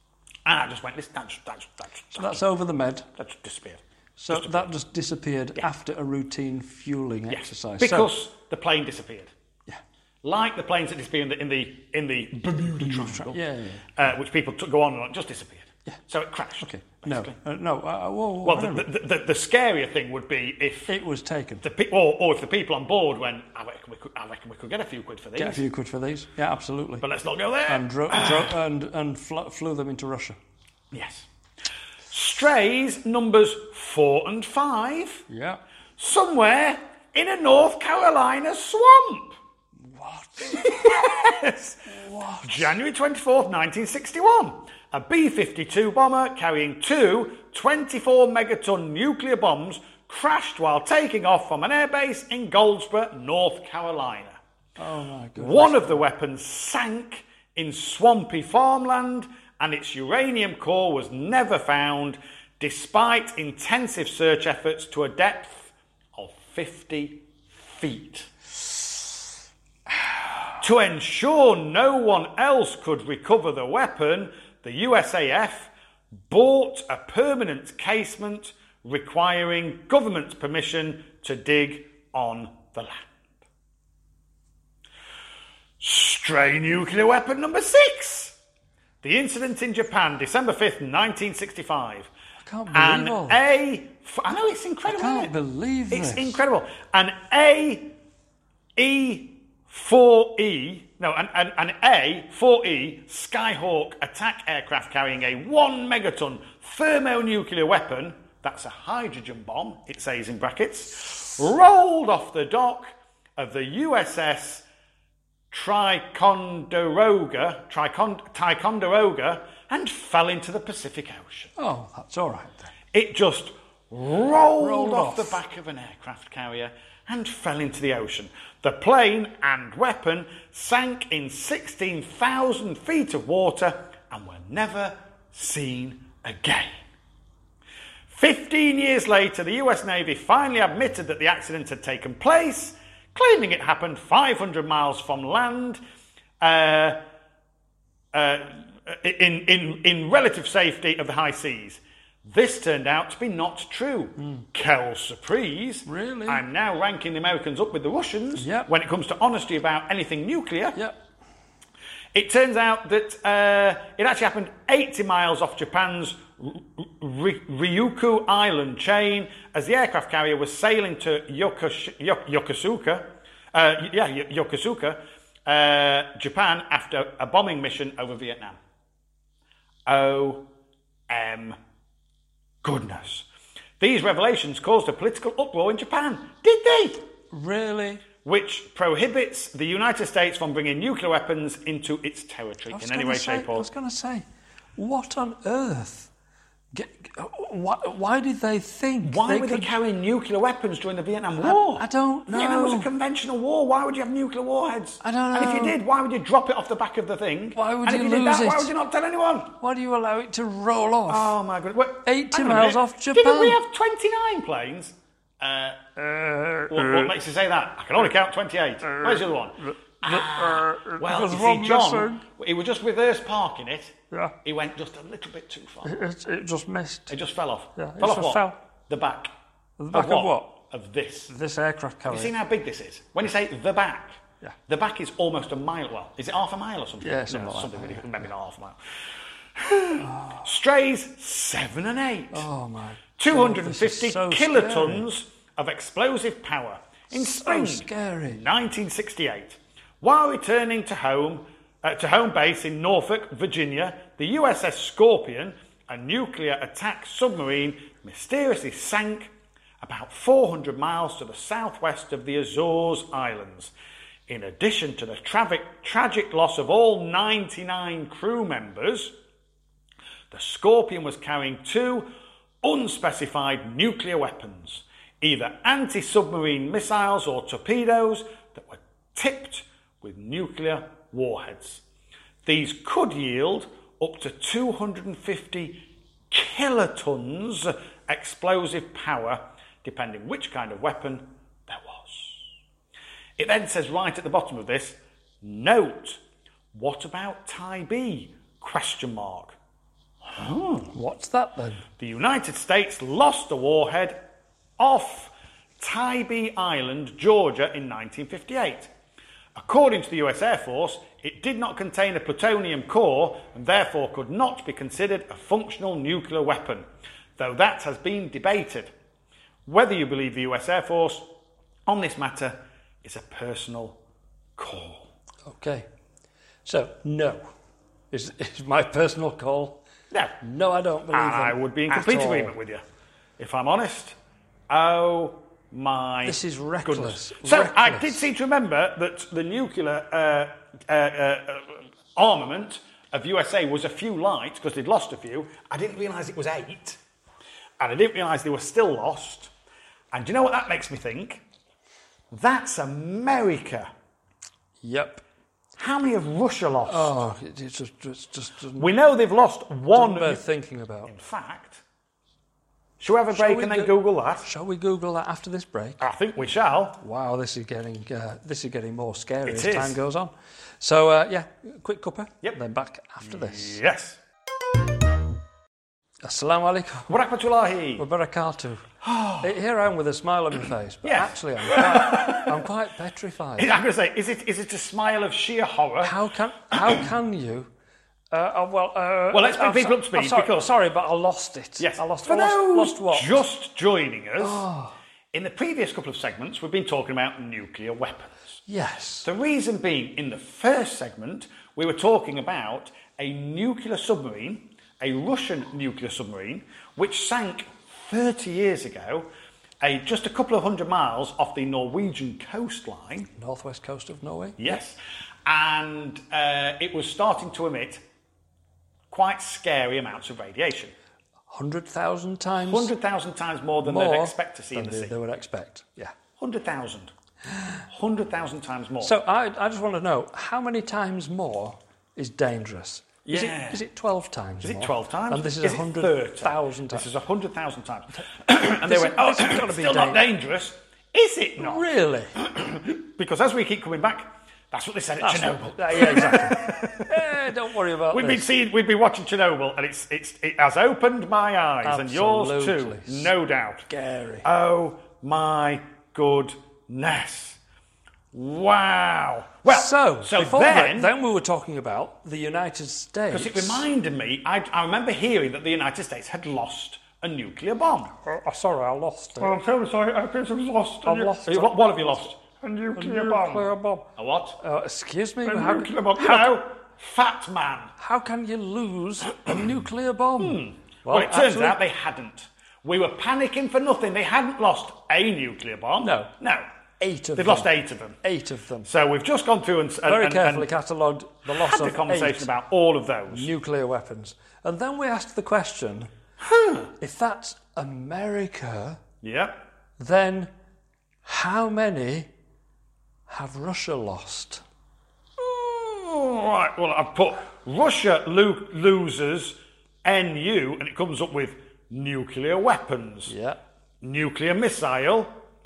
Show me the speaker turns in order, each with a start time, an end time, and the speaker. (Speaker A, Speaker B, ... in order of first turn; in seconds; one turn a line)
Speaker A: 0.5-2.4
Speaker B: 2.1-3.1
Speaker A: 3.2-4.7
Speaker B: 4.2-8.1
Speaker A: 7.3-9.3
Speaker A: 10.2-13.4
Speaker B: 12.8-13.9
Speaker A: 14.0-17.4
Speaker B: 16.6-18.9
Speaker A: 18.4-21.0
Speaker B: 20.9-21.6
Speaker A: 21.6-25.6
Speaker B: 25.4-27.1
Speaker A: 27.0-28.5
Speaker B: 27.7-30.4
Speaker A: 30.9-31.3
Speaker A: 32.1-35.3
Speaker B: 35.3-35.6
Speaker A: 36.0-39.4
Speaker B: 39.8-42.8
Speaker A: 40.4-41.8
Speaker A: 42.4-54.4
Speaker B: 54.8-56.0
Speaker A: 55.4-68.3
Speaker A: 70.6-75.7
Speaker A: 76.3-83.3
Speaker A: 85.8-88.4
Speaker A: 89.0-92.1
Speaker B: 92.4-93.4
Speaker A: 92.7-95.3
Speaker B: 94.9-96.4
Speaker A: 95.9-97.9
Speaker A: 98.8-114.7
Speaker A: 115.5-121.5
Speaker B: 121.6-122.7
Speaker A: 122.9-136.8
Speaker B: 124.6-125.4
Speaker A: 138.1-145.8
Speaker A: 146.4-147.0
Speaker A: 148.1-160.8
Speaker B: 154.2-154.4
Speaker B: 155.9-156.4
Speaker B: 158.4-158.7
Speaker A: 162.1-178.6
Speaker A: 179.9-180.4
Speaker A: 181.1-181.6
Speaker A: 182.6-183.3
Speaker A: 183.8-187.0
Speaker B: 187.3-188.1
Speaker A: 188.2-193.7
Speaker B: 192.7-194.2
Speaker B: 194.8-196.1
Speaker B: 196.7-199.7
Speaker A: 199.0-209.6
Speaker B: 201.4-202.9
Speaker B: 205.0-205.8
Speaker B: 207.6-208.7
Speaker B: 209.6-211.3
Speaker A: 211.1-215.8
Speaker B: 212.1-213.6
Speaker B: 216.0-217.1
Speaker A: 216.7-225.9
Speaker B: 218.8-222.2
Speaker B: 225.8-227.1
Speaker A: 227.1-229.3
Speaker B: 227.8-228.6
Speaker B: 229.8-230.6
Speaker A: 229.9-231.3
Speaker B: 231.3-232.3
Speaker A: 232.1-238.8
Speaker B: 237.0-238.1
Speaker A: 239.6-242.5
Speaker B: 240.0-240.5
Speaker B: 242.3-245.1
Speaker A: 243.2-263.7
Speaker B: 247.1-248.4
Speaker A: 264.3-269.1
Speaker A: 270.3-272.1
Speaker A: 272.6-281.8
Speaker A: 282.4-292.5
Speaker A: 293.4-296.2
Speaker A: 296.7-299.6
Speaker A: 300.3-300.9
Speaker B: 300.9-301.8
Speaker A: 302.0-304.2
Speaker A: 304.8-308.9
Speaker A: 309.6-318.9
Speaker A: 319.7-321.3
Speaker A: 321.9-324.0
Speaker A: 324.6-325.1
Speaker B: 325.5-325.9
Speaker B: 326.6-327.5
Speaker B: 328.1-329.8
Speaker A: 330.1-330.4
Speaker B: 330.4-332.6
Speaker A: 331.1-332.8
Speaker A: 333.4-334.2
Speaker A: 334.7-347.0
Speaker B: 336.2-338.3
Speaker A: 347.8-349.5
Speaker A: 350.1-351.4
Speaker A: 352.3-353.9
Speaker B: 354.8-355.2
Speaker A: 355.8-357.1
Speaker B: 356.9-358.9
Speaker A: 358.8-360.4
Speaker B: 359.9-361.1
Speaker A: 361.1-361.8
Speaker A: 363.0-364.5
Speaker B: 363.3-366.1
Speaker A: 366.0-367.0
Speaker B: 367.0-373.8
Speaker A: 369.5-370.0
Speaker A: 373.2-374.2
Speaker B: 376.2-377.1
Speaker A: 377.1-378.1
Speaker B: 378.0-378.9
Speaker A: 379.0-379.5
Speaker B: 379.4-383.7
Speaker A: 381.0-382.6
Speaker A: 383.6-386.2
Speaker B: 386.0-387.7
Speaker A: 386.7-387.1
Speaker B: 388.3-393.4
Speaker A: 389.3-390.7
Speaker A: 391.8-394.7
Speaker B: 394.4-394.9
Speaker A: 395.3-398.6
Speaker B: 398.7-399.3
Speaker A: 399.2-409.3
Speaker A: 409.8-413.3
Speaker B: 413.4-414.8
Speaker A: 414.6-418.0
Speaker A: 419.1-420.9
Speaker B: 421.5-422.9
Speaker A: 422.6-425.1
Speaker B: 423.8-426.1
Speaker A: 426.4-427.1
Speaker A: 427.9-429.2
Speaker B: 429.0-437.1
Speaker A: 433.2-433.8
Speaker A: 434.6-441.9
Speaker B: 438.8-440.2
Speaker B: 441.6-442.4
Speaker A: 442.4-447.2
Speaker B: 445.2-448.5
Speaker A: 448.1-453.9
Speaker B: 451.8-453.3
Speaker B: 453.9-454.5
Speaker A: 454.4-457.6
Speaker A: 458.3-461.1
Speaker B: 459.7-463.9
Speaker A: 463.3-468.1
Speaker B: 468.2-469.6
Speaker A: 469.4-474.6
Speaker B: 471.1-472.2
Speaker B: 472.9-474.1
Speaker B: 474.6-476.6
Speaker A: 475.4-477.9
Speaker B: 478.0-481.8
Speaker A: 480.4-486.7
Speaker B: 486.0-486.3
Speaker B: 487.0-487.7
Speaker A: 487.4-488.2
Speaker B: 488.2-488.9
Speaker A: 488.9-490.7
Speaker B: 490.1-492.5
Speaker A: 491.5-493.5
Speaker B: 493.3-496.1
Speaker A: 496.4-496.9
Speaker B: 497.0-499.0
Speaker A: 499.2-499.6
Speaker B: 500.0-500.5
Speaker B: 501.2-502.3
Speaker B: 503.3-504.6
Speaker A: 505.4-513.3
Speaker B: 513.3-513.6
Speaker A: 514.0-515.4